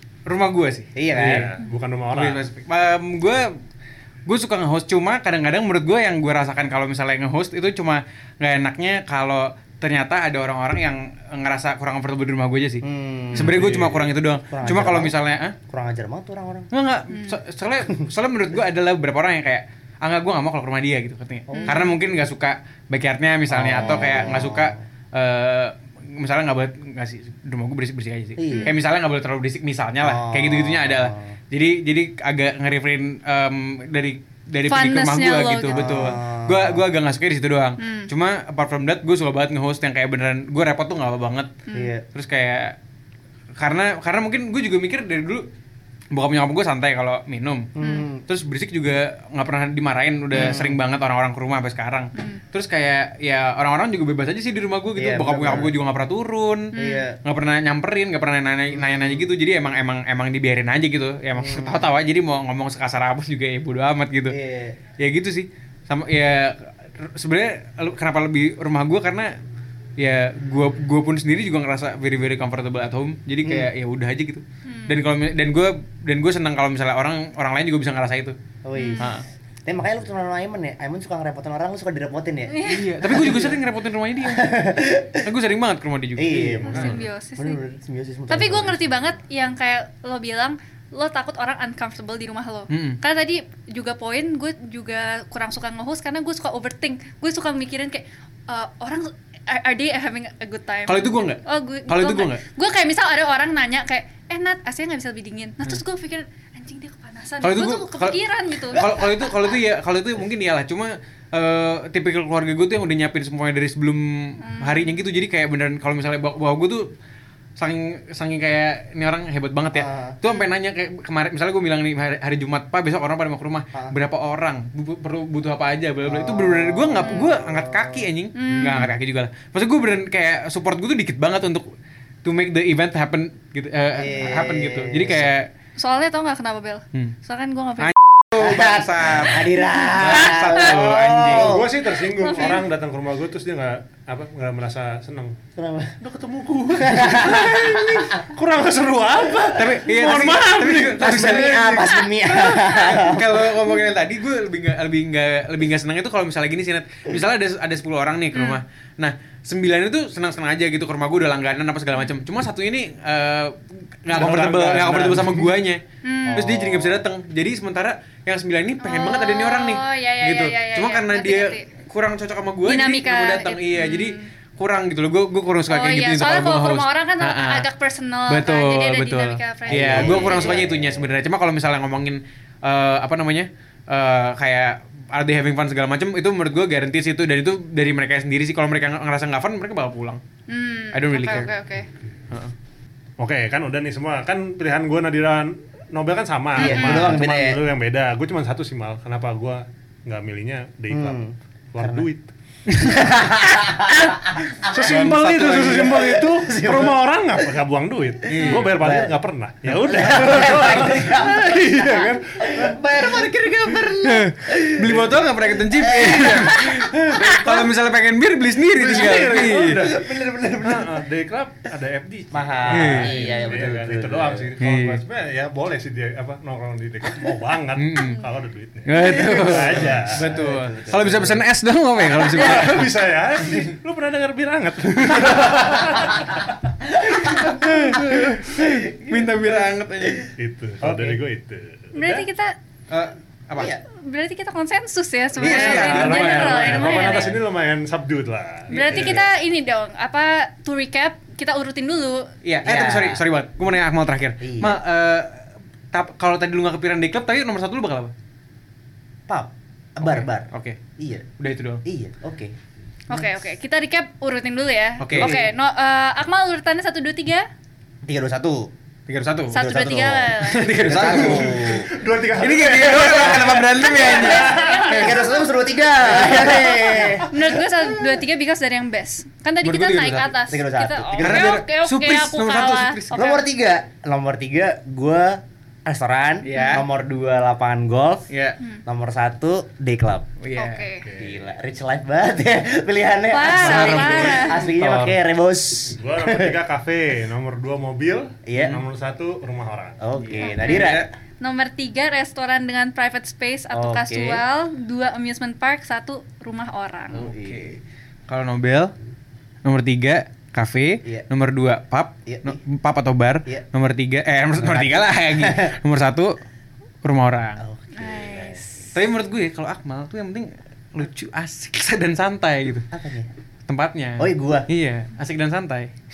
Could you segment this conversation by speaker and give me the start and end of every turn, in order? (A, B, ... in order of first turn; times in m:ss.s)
0:00.2-0:01.5 A
0:00.9-0:01.5 B
0:01.1-0:02.4 C
0:02.1-0:03.5 A
0:04.3-0:15.6 A
0:12.8-0:13.6 B
0:13.4-0:14.1 C
0:14.5-0:15.2 B
0:15.7-0:16.7 B
0:16.7-0:41.5 A
0:17.1-0:17.4 D
0:21.5-0:21.9 B
0:21.5-0:21.9 D
0:23.5-0:24.8 B
0:28.4-0:28.8 B
0:28.5-0:28.7 D
0:30.0-0:31.3 B
0:34.6-0:36.1 D
0:35.7-0:36.8 B
0:37.8-0:38.1 D
0:41.7-0:41.9 D
0:41.7-0:42.0 B
0:42.1-0:42.8 A
0:43.6-0:45.4 A
0:46.1-0:47.7 A
0:47.8-0:48.2 B
0:47.8-0:48.1 D
0:48.3-1:04.4 A
0:50.3-0:50.8 B
0:52.2-0:52.4 D
0:55.0-0:55.7 B
0:56.7-0:57.1 D
0:56.7-0:57.2 B
0:58.7-0:59.2 B
1:01.4-1:01.9 B
1:04.3-1:04.8 B
1:05.0-1:09.3 A
1:10.0-1:18.3 A
1:13.4-1:13.7 B
1:14.6-1:15.0 D
1:18.6-1:19.1 B
1:18.7-1:19.0 D
1:19.0-1:19.2 A
1:19.6-1:23.6 B
1:22.5-1:22.8 D
1:22.6-1:27.0 A
1:24.2-1:25.3 B
1:26.2-1:28.9 B
1:26.7-1:27.6 D
1:28.3-1:48.9 D
1:32.7-1:33.0 A
1:40.9-1:42.4 A
1:47.4-1:56.9 A
1:54.4-1:55.0 D
1:57.6-2:15.5 A
1:59.7-2:00.2 B
2:06.0-2:08.1 B
2:08.3-2:08.9 D
2:14.0-2:15.3 B
2:15.8-2:17.9 D
2:17.8-2:21.6 A
2:18.3-2:21.7 B
2:20.6-2:25.4 C
2:22.0-2:22.7 D
2:25.6-2:26.0 B
2:26.0-2:31.7 C
2:26.7-2:28.2 B
2:29.6-2:45.8 A
2:30.1-2:30.4 B
2:31.0-2:33.6 B
2:38.3-2:38.6 D
2:44.1-2:45.5 C
2:46.0-2:46.5 D
2:46.3-2:47.0 B
2:46.3-2:57.7 A
2:48.8-2:51.7 D
2:52.6-2:54.3 D
2:55.7-3:00.6 D
2:58.3-3:10.2 A
2:59.7-3:01.1 B
3:10.5-3:11.9 D
3:10.9-3:11.5 A
3:13.2-3:21.2 C
3:16.6-3:17.6 B
3:16.6-3:17.1 D
3:16.8-3:17.2 A
3:20.9-3:22.1 B
3:21.7-3:22.3 C
3:22.7-3:23.0 A
3:22.8-3:27.6 B
3:24.4-3:33.3 C
3:24.8-3:25.8 A
3:28.3-3:28.8 A
3:28.3-3:29.2 B
3:29.7-3:37.7 B
3:33.8-3:39.9 A
3:36.1-3:36.5 C
3:38.7-3:50.4 C
3:39.7-3:41.0 B
3:42.3-3:44.5 B
3:42.7-3:43.7 A
3:44.6-3:45.0 A
3:47.8-3:48.2 A
3:48.8-3:52.9 A
3:49.0-3:51.4 B
3:52.2-3:58.1 C
3:57.0-3:59.6 B
3:57.3-4:00.3 A
4:00.4-4:02.2 C
4:00.8-4:01.2 B
4:01.9-4:02.5 D
4:02.9-4:03.7 A
4:03.5-4:03.8 B
4:03.9-4:07.4 D
4:05.4-4:09.2 C
4:05.4-4:07.3 A
4:08.7-4:12.3 D
4:08.7-4:09.2 A
4:12.4-4:15.4 A
4:12.6-4:13.2 B
4:14.4-4:14.8 B
4:15.9-4:18.1 A
4:19.3-4:21.3 B
4:20.0-4:20.8 A
4:21.4-4:21.8 A
4:21.8-4:22.6 B
4:23.1-4:27.5 D
4:25.0-4:25.3 A
4:25.1-4:25.5 B
4:28.0-4:28.7 B
4:29.1-4:29.6 A
4:29.5-4:30.7 D
4:29.5-4:31.9 B
4:30.4-4:31.9 A
4:30.9-4:35.3 C
4:32.4-4:34.8 A
4:33.7-4:35.5 D
4:34.6-4:37.6 B
4:36.0-4:37.2 C
4:37.2-4:43.4 D
4:39.6-4:40.4 A
4:40.5-4:41.6 B
4:41.2-4:43.4 A
4:43.1-4:48.3 B
4:46.4-4:46.8 A
4:46.5-4:46.8 D
4:48.3-4:48.6 A
4:48.8-4:50.3 B
4:50.4-4:50.9 A
4:50.6-4:51.1 D
4:51.0-4:51.5 C
4:51.2-4:56.6 B
4:53.3-4:54.6 D
4:53.5-4:55.2 C
4:53.6-4:54.2 A
4:55.9-5:00.0 C
4:58.4-4:58.8 B
4:58.6-4:58.8 A
5:00.0-5:01.1 B
5:00.2-5:01.1 A
5:00.4-5:07.3 D
5:03.7-5:04.4 B
5:07.1-5:07.7 B
5:07.2-5:08.9 A
5:09.6-5:16.4 A
5:12.3-5:12.6 B
5:14.6-5:15.7 B
5:17.0-5:17.6 A
5:17.6-5:18.6 B
5:17.9-5:19.0 D
5:18.9-5:22.9 A
5:22.9-5:23.3 B
5:23.7-5:25.9 A
5:24.2-5:24.7 B